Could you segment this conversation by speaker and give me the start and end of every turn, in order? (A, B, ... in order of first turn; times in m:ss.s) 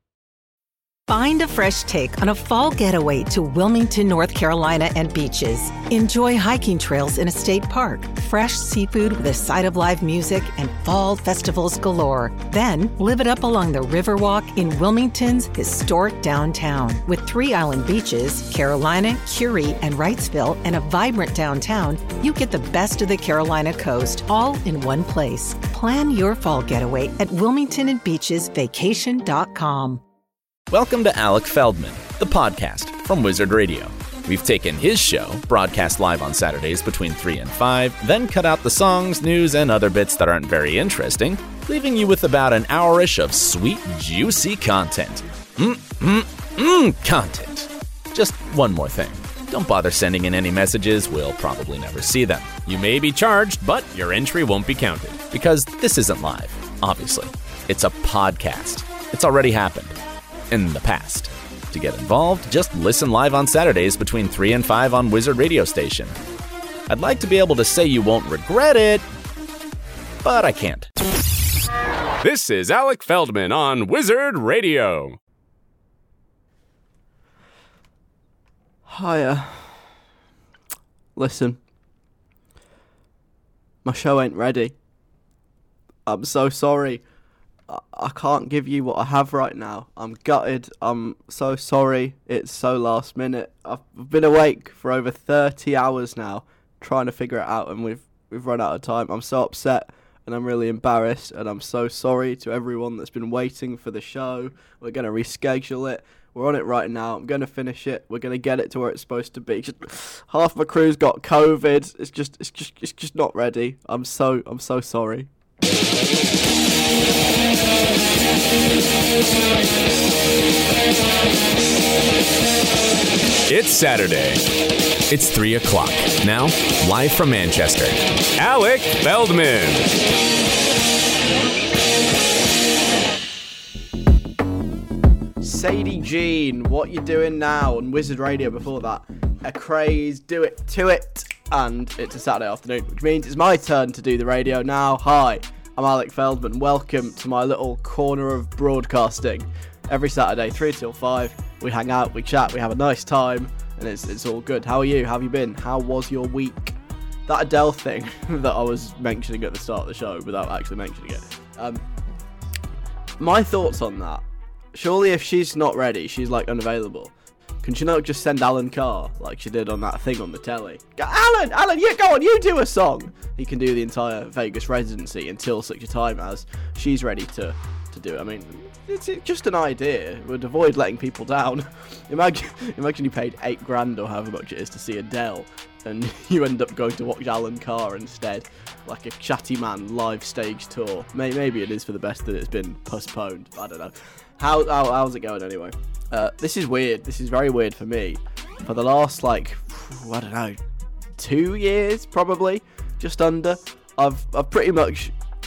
0:01.1-0:30.0 A
0:30.7-1:00.0 B
0:52.7-0:55.1 C
1:00.5-1:06.2 B
1:06.9-1:09.0 B
1:10.2-1:10.9 B
1:12.2-1:15.2 C
1:18.9-1:19.9 D
1:21.2-1:21.6 D
1:23.8-1:24.8 D
1:26.1-1:27.0 D
1:27.7-1:55.3 D
2:03.5-2:04.4 C
2:05.1-2:09.9 C
2:15.4-2:36.8 D
2:37.3-2:41.8 D
2:43.2-2:44.2 D
2:44.7-2:47.1 D
2:47.6-3:20.6 D
3:21.2-3:25.1 D